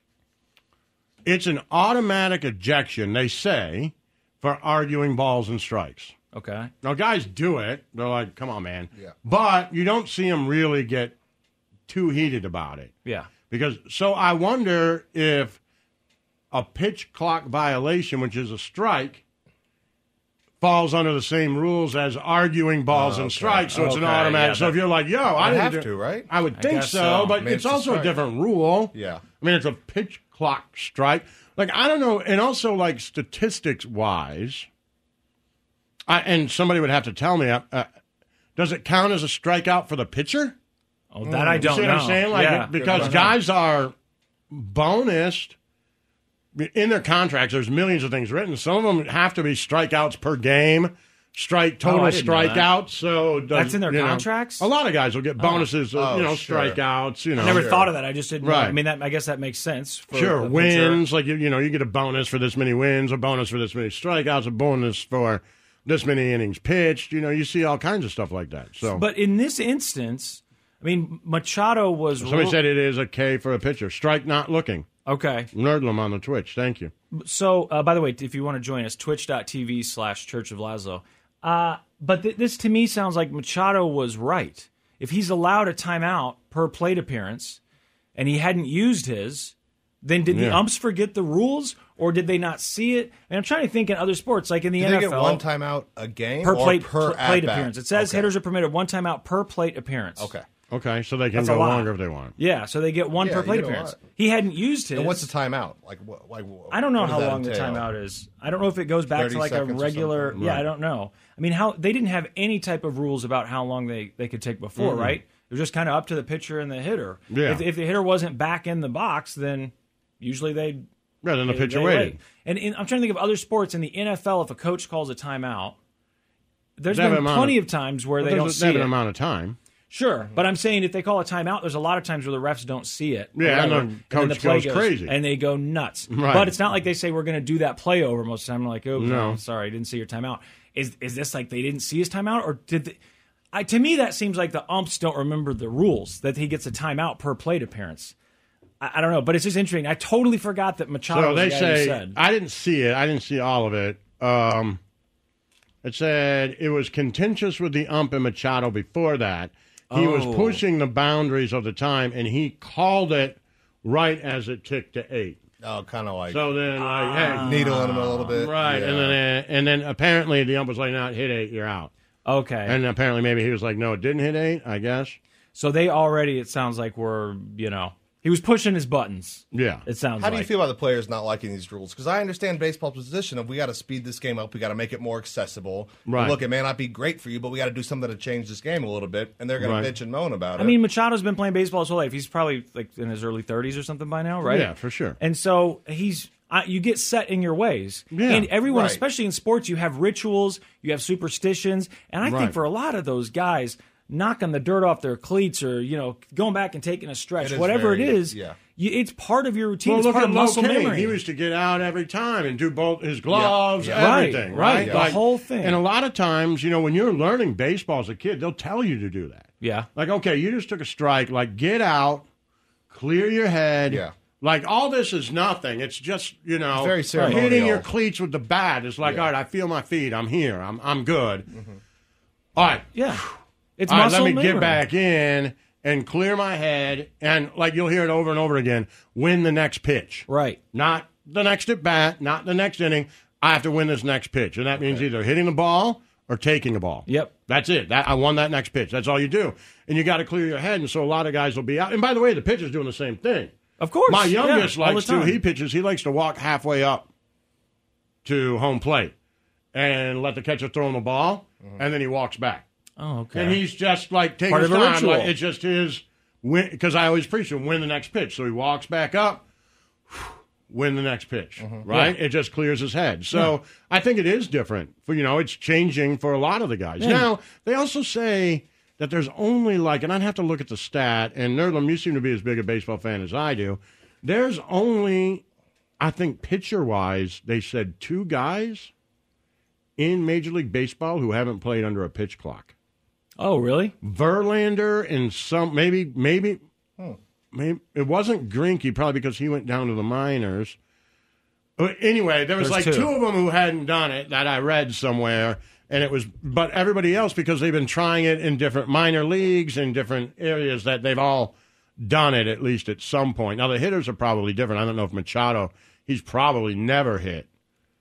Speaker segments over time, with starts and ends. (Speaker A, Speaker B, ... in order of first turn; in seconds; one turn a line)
Speaker A: 1.2-6.1
Speaker B: 6.3-6.7
Speaker A: 6.8-11.2
Speaker A: 11.9-12.9
Speaker B: 13.0-13.3
Speaker A: 13.5-15.6
Speaker A: 16.5-19.2
Speaker A: 20.6-34.7
Speaker C: 22.9-23.7
Speaker B: 23.7-24.8
Speaker C: 25.3-26.3
Speaker B: 26.5-27.4
Speaker C: 27.4-28.1
Speaker C: 28.9-29.2
Speaker A: 36.1-37.9
Speaker A: 38.5-40.5
Speaker B: 41.1-43.4
Speaker C: 41.2-41.8
Speaker A: 41.5-43.9
Speaker C: 42.8-43.4
Speaker A: 44.5-45.5
Speaker A: 46.5-57.8
Speaker B: 51.8-52.7
Speaker B: 53.5-54.7
Speaker B: 55.4-55.7
Speaker C: 55.9-56.8
Speaker C: 57.3-57.9
Speaker B: 57.4-61.0
Speaker A: 58.4-58.8
Speaker A: 60.1-69.0
Speaker B: 68.9-72.6
Speaker A: 72.2-74.8
Speaker B: 75.0-75.5
Speaker A: 75.5-76.9
Speaker B: 77.1-87.6
Speaker B: 88.1-95.4
Speaker A: 90.3-90.6
Speaker C: 94.8-98.3
Speaker B: 96.4-100.3
Speaker C: 100.2-100.4
Speaker A: 100.7-102.3
Speaker B: 101.3-105.3
Speaker C: 103.2-104.0
Speaker C: 104.9-107.9
Speaker B: 106.7-120.8
Speaker C: 109.1-110.4
Speaker A: 110.3-110.7
Speaker A: 114.8-115.2
Speaker A: 117.3-117.6
Speaker A: 121.2-122.2
Speaker B: 121.4-125.8
Speaker B: 126.8-128.9
Speaker A: 126.9-129.6
Speaker B: 129.9-143.0
Speaker A: 133.3-135.2
Speaker A: 136.1-136.5
Speaker A: 138.9-139.4
Speaker B: 143.5-148.1
Speaker B: 148.8-152.2
Speaker A: 151.1-154.8
Speaker A: 155.8-165.4
Speaker B: 159.9-160.6
Speaker C: 165.6-166.5
Speaker A: 166.3-171.9
Speaker B: 166.8-168.3
Speaker C: 167.2-169.2
Speaker B: 172.2-172.8
Speaker A: 172.6-175.2
Speaker B: 175.5-180.5
Speaker A: 179.5-179.8
Speaker C: 180.2-190.8
Speaker A: 186.1-186.4
Speaker A: 189.6-189.9
Speaker B: 190.6-211.2
Speaker A: 194.4-195.2
Speaker A: 198.1-198.5
Speaker C: 198.7-199.0
Speaker A: 202.2-202.6
Speaker C: 207.4-208.6
Speaker A: 209.8-222.2
Speaker B: 213.3-215.8
Speaker C: 213.8-215.1
Speaker B: 219.6-219.9
Speaker A: 222.9-231.5
Speaker C: 223.9-224.1
Speaker C: 226.7-227.9
Speaker B: 227.1-227.4
Speaker C: 229.0-229.3
Speaker C: 231.5-231.8
Speaker A: 232.6-233.3
Speaker B: 232.9-233.2
Speaker B: 233.8-234.8
Speaker A: 233.9-253.5
Speaker B: 240.3-240.6
Speaker B: 247.1-247.3
Speaker B: 253.8-255.4
Speaker A: 254.1-257.1
Speaker A: 258.2-259.1
Speaker A: 259.7-262.6
Speaker B: 263.0-263.6
Speaker A: 263.3-269.4
Speaker B: 264.5-265.3
Speaker A: 270.1-285.4
Speaker C: 271.6-271.9
Speaker B: 271.9-272.1
Speaker B: 277.0-277.2
Speaker A: 286.0-288.9
Speaker A: 290.0-292.7
Speaker B: 293.4-293.9
Speaker A: 294.0-296.6
Speaker A: 297.5-300.8
Speaker A: 301.8-317.5
Speaker B: 302.6-303.1